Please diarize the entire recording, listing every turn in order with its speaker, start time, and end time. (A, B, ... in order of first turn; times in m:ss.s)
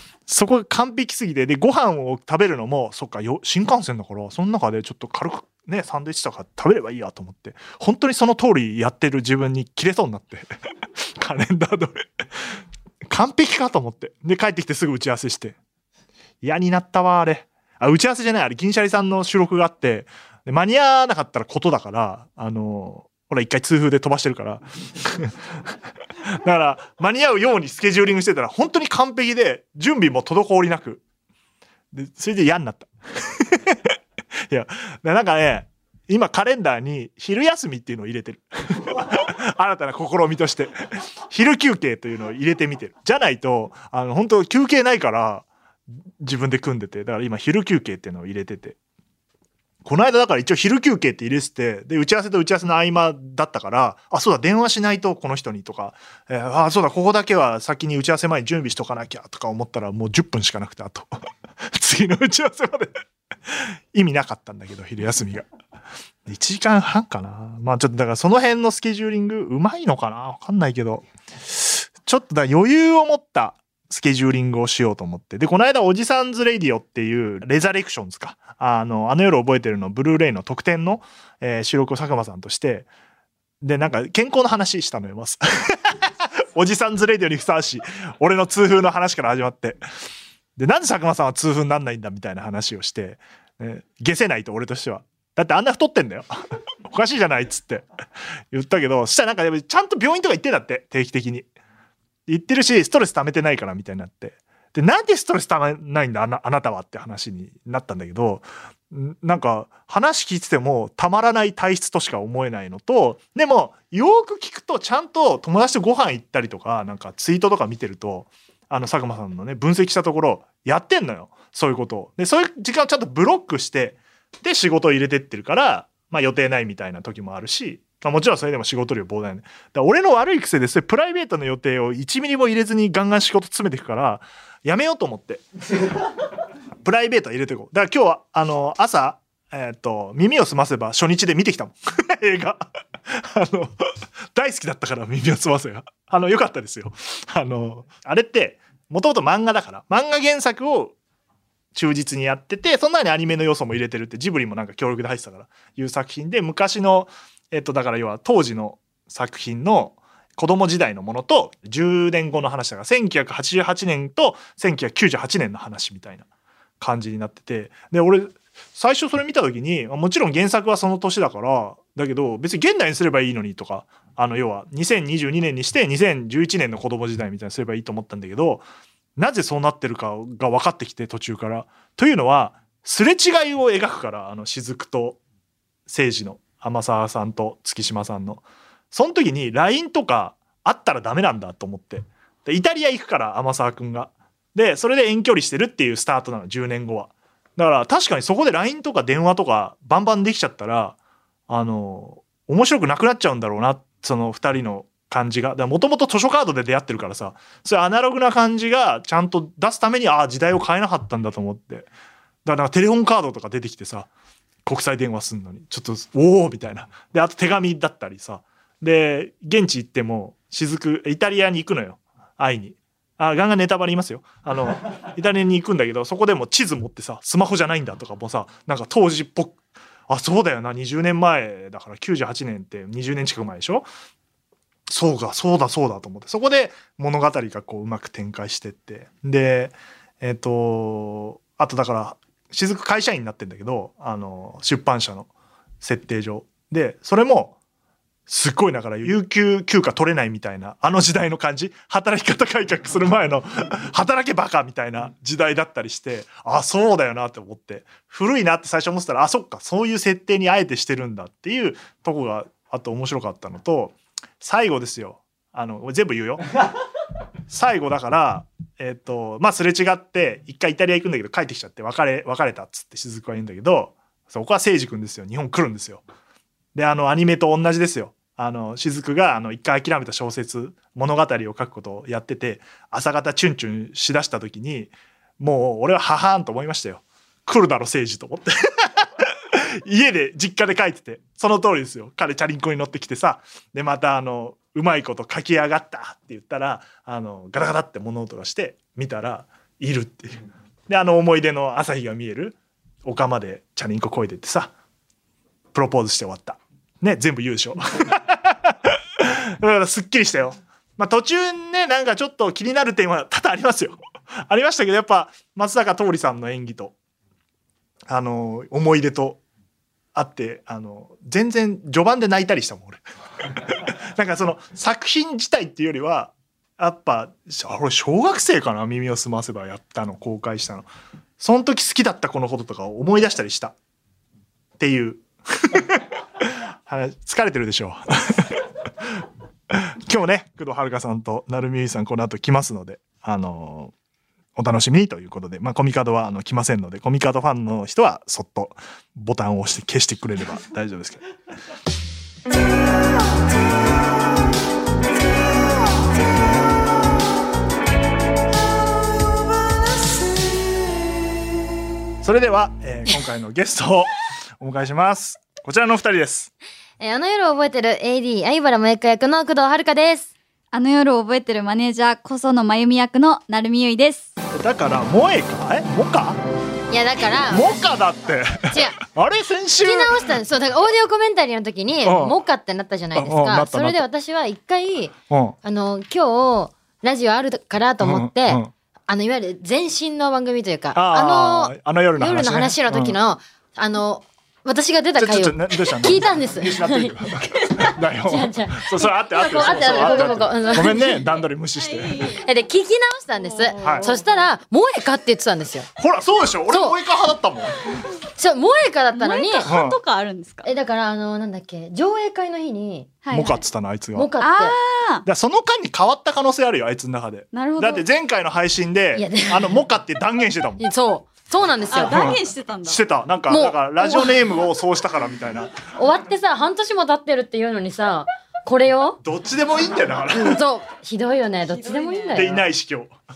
0:00.3-0:10.5 A
0:11.2-0:12.6 A
0:13.1-0:15.6 A
0:16.4-0:25.5 A
0:26.3-0:31.0 A
0:31.9-0:34.0 A
0:34.5-0:40.7 A
0:41.3-0:45.5 A
0:46.2-0:48.8 A
0:49.8-1:02.9 A
1:03.5-1:05.5 A
1:06.3-1:22.9 A
1:23.6-1:29.8 A
1:30.6-1:36.3 A
1:36.9-1:37.9 A
1:38.5-1:41.5 A
1:42.3-2:15.4 A
2:16.8-2:23.8 A
2:24.3-2:31.0 A
2:31.7-2:46.3 A
2:46.8-2:58.6 A
2:59.2-3:05.2 A
3:05.9-3:21.0 A
3:21.5-3:31.9 A
3:32.4-3:34.1 A
3:34.6-3:53.9 A
3:54.9-4:05.3 A
4:05.8-4:07.6 A
4:08.3-4:26.4 A
4:27.5-4:36.0 A
4:36.8-5:04.7 A
5:05.7-5:17.0 A
5:18.1-5:19.4 A
5:20.1-5:30.9 A
5:31.4-5:33.8 A
5:34.8-5:43.9 A
5:44.6-5:51.2 A
6:02.2-6:06.5 A
6:07.0-6:10.3 B
6:10.7-6:14.3 C
6:14.5-6:16.4 A
6:16.9-6:17.8 B
6:17.5-6:20.3 A
6:18.7-6:19.0 B
6:19.8-6:41.2 B
6:22.0-6:22.4 A
6:23.2-6:24.0 A
6:25.3-6:25.6 A
6:28.0-6:28.7 A
6:30.9-6:33.2 A
6:35.2-6:42.3 A
6:39.4-6:41.1 C
6:41.8-6:42.5 C
6:42.3-6:45.9 B
6:43.4-6:44.4 C
6:43.8-6:44.1 A
6:46.0-6:48.0 A
6:46.7-6:47.0 B
6:48.4-6:49.7 B
6:49.1-6:50.7 C
6:49.7-6:50.0 A
6:50.6-6:53.1 B
6:53.2-6:53.6 C
6:53.3-6:54.3 A
6:54.2-6:54.8 B
6:54.4-6:55.2 C
6:55.2-7:00.8 A
6:57.5-6:58.0 C
6:59.2-6:59.8 B
7:00.8-7:02.3 B
7:01.9-7:03.0 C
7:02.0-7:05.8 A
7:03.5-7:04.4 B
7:06.0-7:09.2 B
7:09.2-7:10.6 A
7:10.3-7:12.6 B
7:11.7-7:12.5 C
7:12.3-7:13.1 A